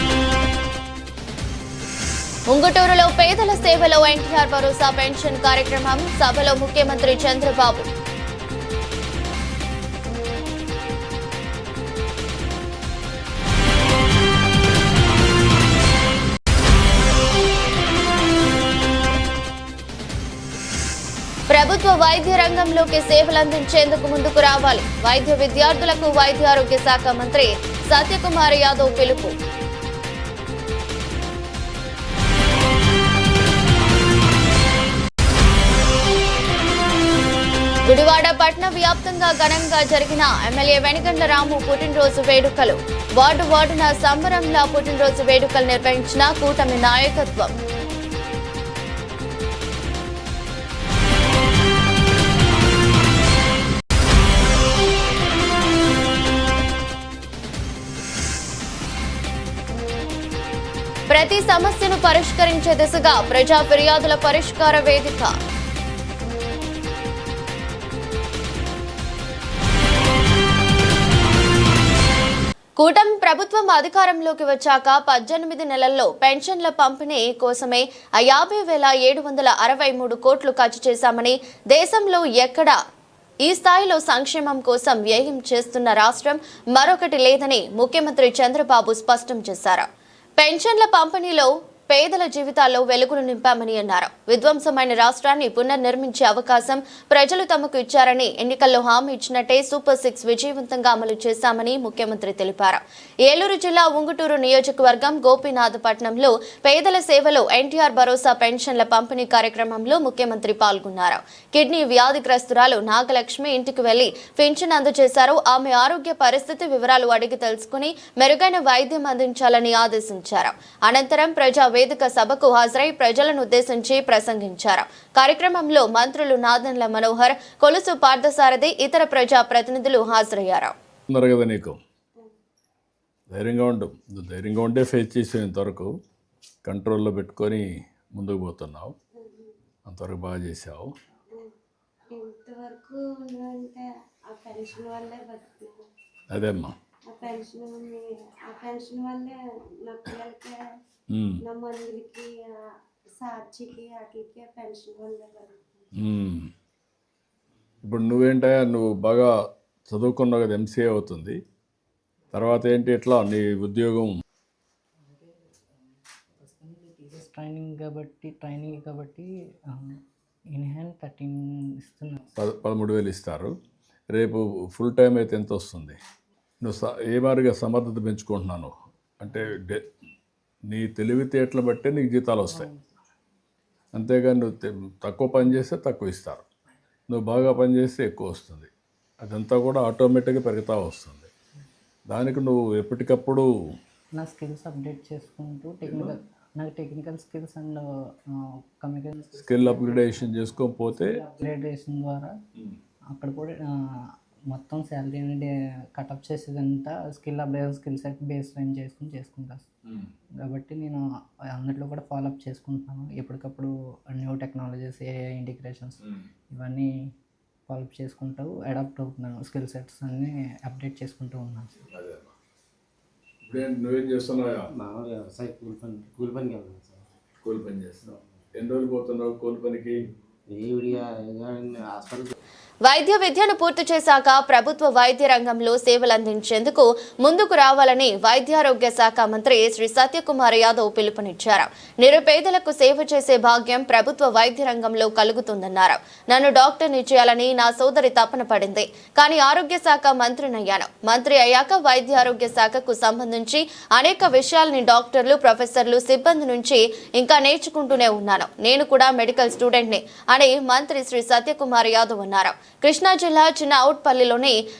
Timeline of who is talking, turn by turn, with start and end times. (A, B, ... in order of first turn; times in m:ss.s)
0:02.5-0:07.9 A
0:21.5-0:29.4 A
0:37.8-0:47.5 A
1:01.1-1:05.3 A
1:12.8-1:22.8 A
1:23.4-1:29.9 A
1:30.4-2:10.7 A
2:11.1-2:11.8 B
2:13.3-2:15.9 B
2:16.6-2:18.9 B
2:19.1-2:19.6 C
2:19.9-2:20.9 B
2:22.1-2:25.8 C
2:26.3-2:26.7 B
2:27.1-2:30.6 C
2:31.1-2:31.4 B
2:31.4-2:32.6 C
2:33.1-2:35.9 C
2:36.0-2:36.5 B
2:37.8-2:39.3 B
2:39.9-2:41.4 B
2:42.3-2:44.2 B
2:46.4-2:50.0 D
2:50.5-2:52.2 D
2:52.4-2:53.6 B
2:54.1-2:56.0 B
2:56.6-2:59.8 B
3:00.7-3:02.7 B
3:02.5-3:02.8 D
3:03.9-3:06.4 B
3:07.1-3:08.7 B
3:09.2-3:11.3 B
3:12.1-3:13.5 B
3:14.2-3:22.3 D
3:19.4-3:21.2 B
3:23.1-3:23.8 D
3:24.5-3:29.6 D
3:30.4-3:36.0 D
3:36.5-3:36.9 D
3:37.7-3:41.7 D
3:41.8-3:42.3 B
3:43.4-3:44.7 B
3:44.7-3:47.1 E
3:47.4-3:50.0 B
3:50.5-3:52.3 E
3:52.8-4:24.6 A